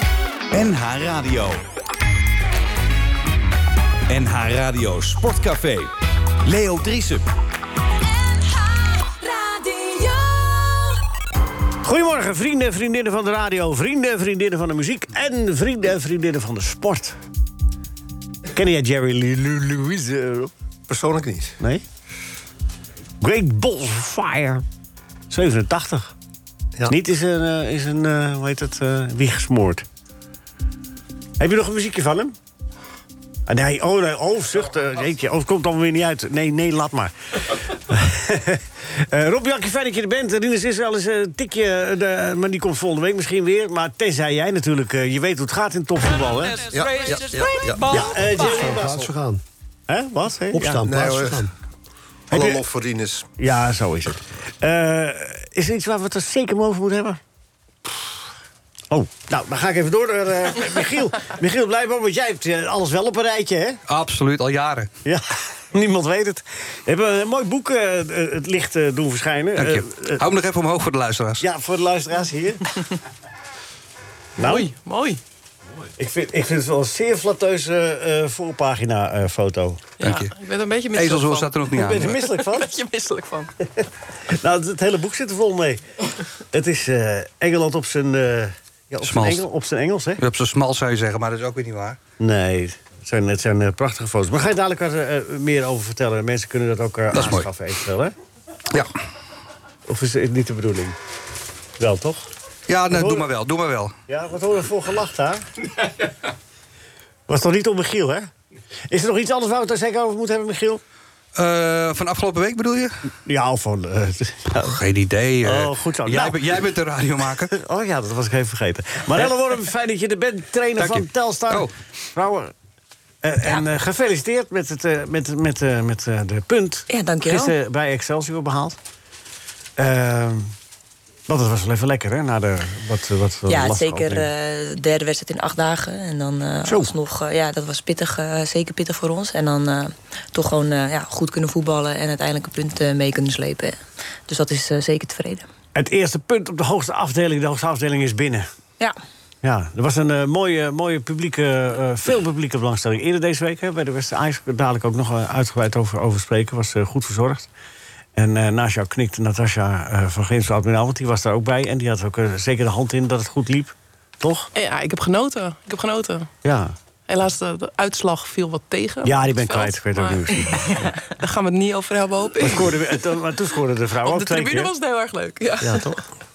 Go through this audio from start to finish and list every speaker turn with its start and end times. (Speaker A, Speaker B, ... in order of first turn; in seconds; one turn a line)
Speaker A: 0.5-1.6
Speaker A: 4.1-5.9
Speaker A: 6.4-7.3
Speaker B: 8.2-11.0
Speaker C: 11.8-17.2
Speaker C: 18.5-20.5
Speaker D: 20.9-21.6
Speaker C: 21.6-21.9
Speaker C: 23.2-24.6
Speaker C: 25.3-26.1
Speaker C: 26.9-29.9
Speaker C: 31.4-32.4
Speaker C: 33.5-46.8
Speaker D: 46.6-48.0
Speaker E: 47.1-47.6
Speaker C: 47.8-49.1
Speaker F: 48.4-49.4
Speaker C: 49.9-50.9
Speaker F: 50.5-51.5
Speaker D: 50.9-51.5
Speaker C: 52.3-52.6
Speaker D: 52.3-53.3
Speaker C: 53.4-57.2
Speaker C: 58.9-63.8
Speaker E: 63.9-64.9
Speaker C: 65.0-70.2
Speaker E: 69.6-71.5
Speaker C: 71.4-72.7
Speaker G: 74.4-75.2
Speaker C: 74.4-74.7
Speaker C: 76.0-79.9
Speaker G: 80.0-81.7
Speaker E: 80.0-80.3
Speaker E: 80.9-82.2
Speaker C: 81.7-82.8
Speaker G: 82.2-83.5
Speaker C: 83.8-85.8
Speaker C: 86.5-90.2
Speaker E: 89.0-89.4
Speaker E: 90.2-92.0
Speaker C: 92.2-98.1
Speaker E: 97.1-97.5
Speaker C: 99.9-101.0
Speaker C: 101.8-102.3
Speaker E: 102.7-103.9
Speaker C: 102.9-103.3
Speaker C: 104.1-105.5
Speaker C: 107.3-108.3
Speaker C: 108.9-110.8
Speaker E: 111.4-113.0
Speaker C: 113.2-114.8
Speaker E: 114.7-117.5
Speaker C: 115.4-116.5
Speaker C: 117.5-122.5
Speaker E: 120.8-121.7
Speaker C: 123.2-128.8
Speaker H: 126.9-127.5
Speaker C: 129.8-130.5
Speaker C: 131.3-134.3
Speaker H: 133.5-145.5
Speaker C: 145.7-148.5
Speaker C: 149.4-157.5
Speaker C: 158.2-164.5
Speaker G: 164.5-166.3
Speaker C: 166.4-166.8
Speaker G: 167.1-173.0
Speaker C: 169.0-170.9
Speaker C: 172.4-174.7
Speaker G: 174.0-176.0
Speaker C: 175.6-176.0